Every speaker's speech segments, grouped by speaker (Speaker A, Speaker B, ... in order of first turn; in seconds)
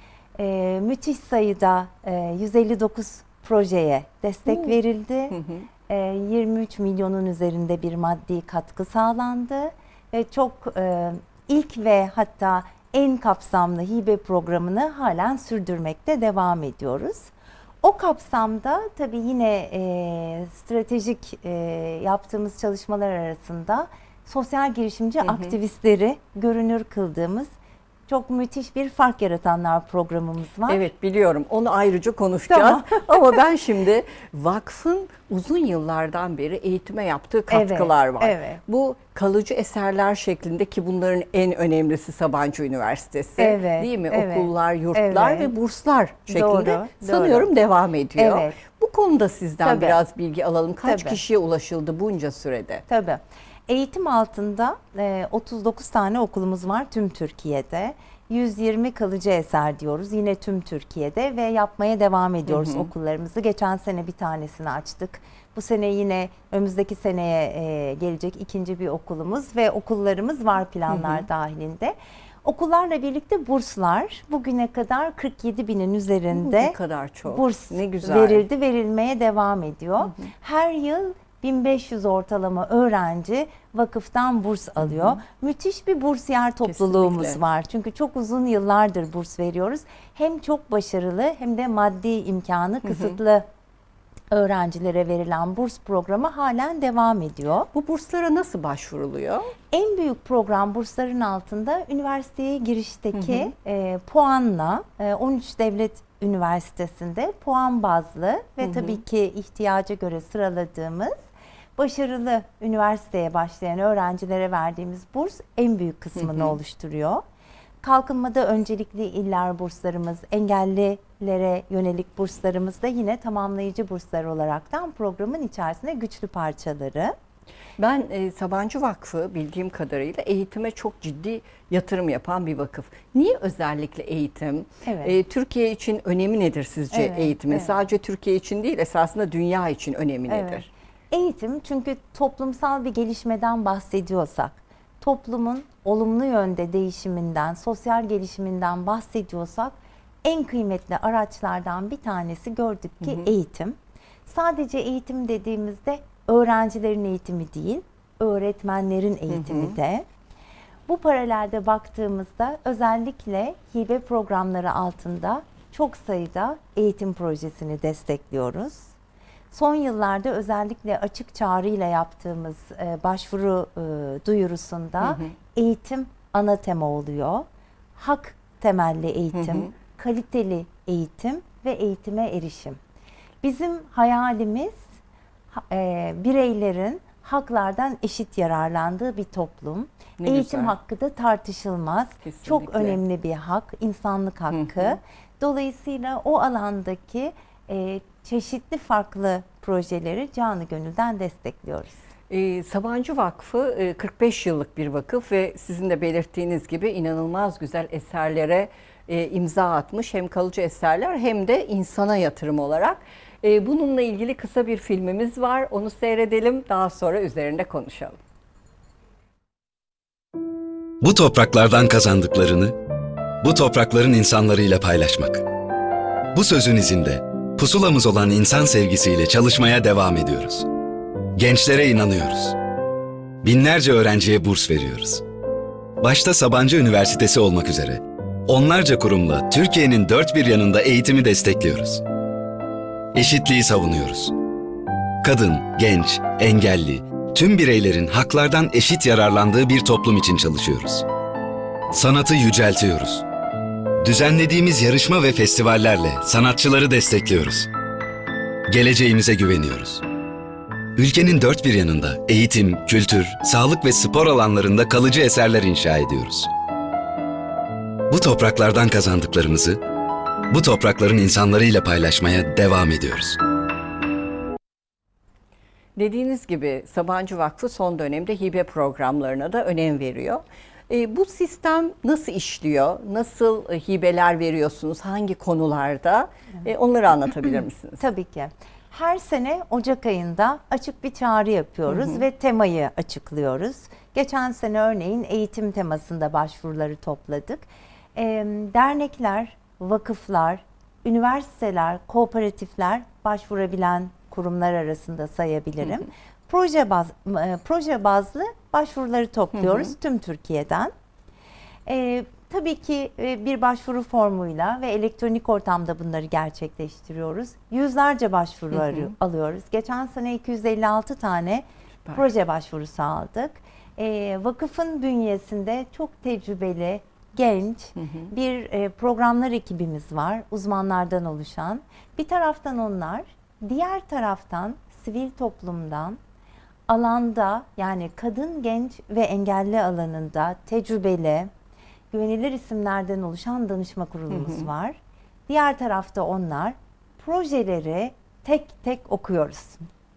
Speaker A: 0.4-5.4, 5.9-27.5, 28.1-30.8, 32.5-32.9, 37.5-38.6, 43.4-45.5, 46.3-47.5, 48.2-48.6, 49.6-50.0, 50.8-51.2, 52.9-93.5, 94.3-97.7, 99.7-111.2, 111.8-117.2, 117.8-127.2, 134.8-135.1, 136.9-137.8, 140.3-160.1, 160.9-168.9, 169.5-182.8, 183.4-184.9, 185.5-202.0, 288.0-310.9, 311.9-336.2, 336.9-341.5, 342.1-349.9
Speaker B: 4.5-4.7, 5.3-5.7, 25.2-25.5, 30.7-52.8, 62.5-62.9, 70.9-71.2, 76.3-78.5, 84.8-85.2, 86.7-87.4, 97.7-99.5, 103.1-103.5, 108.6-109.0, 116.2-116.6, 127.8-140.7, 153.0-153.3, 159.3-159.7, 175.0-175.3, 179.3-179.7, 190.2-190.7, 192.2-193.0, 194.5-195.0, 202.3-218.2, 276.0-288.0, 291.9-292.2, 318.7-319.1, 328.0-328.3, 344.3-344.6
Speaker C: 221.0-222.8, 223.4-225.5, 226.3-230.7, 231.4-232.6, 233.4-235.2, 236.0-242.0, 243.1-244.3, 245.2-251.1, 251.9-253.2, 254.0-257.7, 258.7-260.0, 261.0-266.5, 268.1-269.8, 270.5-273.4